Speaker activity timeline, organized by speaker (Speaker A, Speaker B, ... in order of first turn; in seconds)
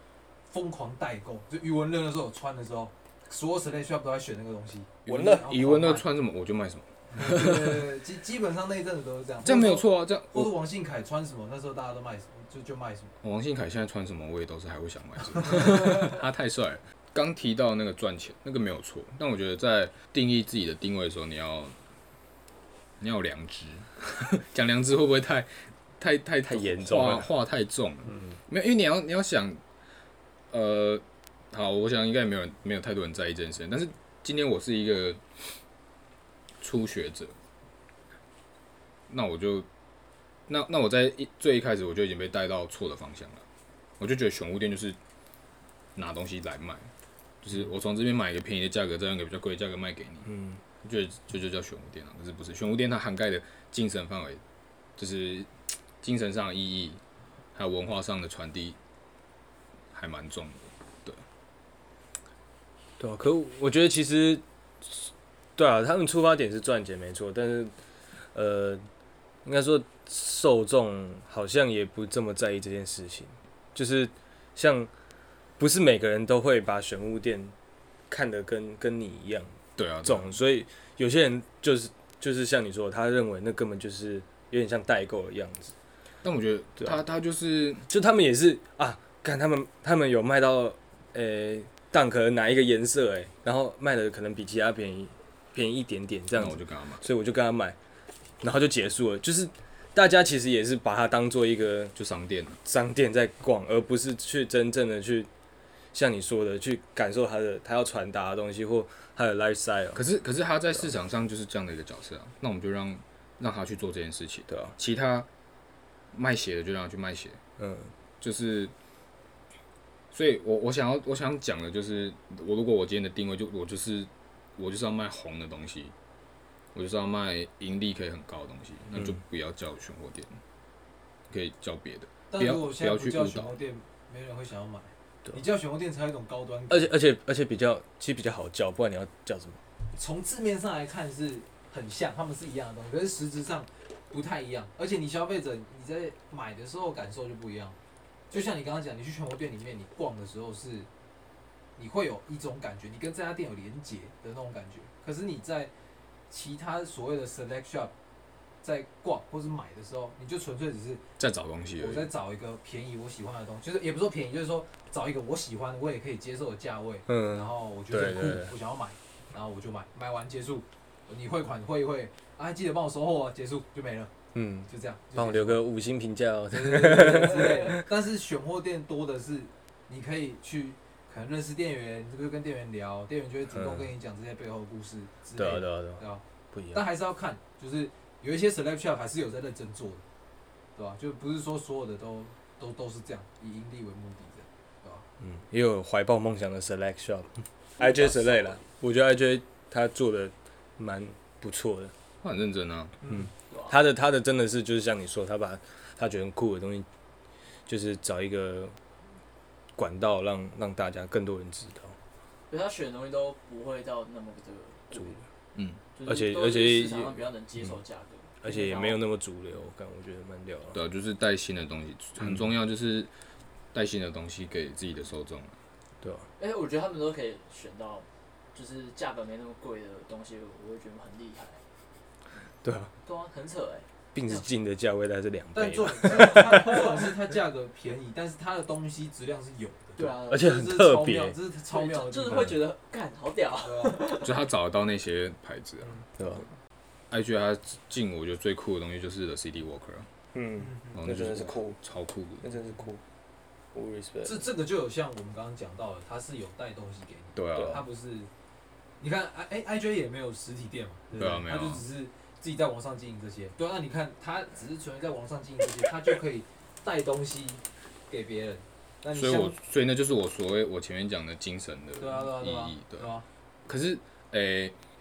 Speaker A: 0.5-6.1, 7.1-13.1, 15.5-16.0, 132.3-136.9, 139.9-147.8, 148.3-150.9, 151.8-155.7, 156.3-157.9, 158.6-161.0, 161.8-174.1, 174.7-175.6, 176.5-190.0, 190.8-195.1, 203.0-203.3, 235.5-242.6, 243.6-244.1, 250.6-251.0, 254.2-258.3, 259.0-269.6, 272.0-273.3
Speaker B: 5.1-7.8, 9.4-10.5, 13.2-21.8, 23.0-29.6, 30.5-35.5, 36.6-37.4, 39.1-39.7, 40.5-43.5, 44.0-45.0, 46.0-46.9, 47.4-50.3, 50.8-54.4, 55.0-57.0, 57.5-58.8, 59.9-61.2, 79.8-80.4, 86.2-87.9, 96.4-97.0, 102.0-102.6, 110.0-115.3, 116.1-117.4, 118.2-118.7, 120.1-125.9, 126.7-130.4, 131.3-133.6, 161.2-162.1, 202.2-203.0, 215.6-215.8, 220.7-223.1, 223.7-225.6, 244.1-246.0, 247.1-250.1, 250.9-252.5, 257.4-257.8, 261.2-261.8, 269.1-273.1, 273.7-274.8
Speaker C: 5.1-5.5, 26.4-27.3, 50.3-50.6, 63.0-67.7, 68.3-68.8, 69.5-74.9, 75.6-77.5, 78.1-85.7, 87.9-97.8, 98.4-102.0, 102.7-105.3, 105.9-110.0, 114.5-114.8, 117.6-117.9, 128.9-129.2, 136.7-139.6, 167.1-168.5, 174.3-177.8, 183.5-183.9, 185.4-186.8, 195.2-201.9, 203.1-206.9, 207.7-208.8, 209.8-212.0, 216.1-217.7, 218.4-220.8, 222.2-222.5, 226.0-226.3, 232.6-232.9, 234.1-236.9, 240.3-241.4, 242.3-242.6, 246.2-246.5, 250.3-251.8, 252.4-253.0, 253.7-254.4, 257.5-257.8, 261.1-261.4
Speaker D: 197.8-198.6, 203.5-203.8, 212.5-215.2, 216.0-219.0, 226.4-231.6, 233.0-234.5, 240.0-240.6, 241.7-244.3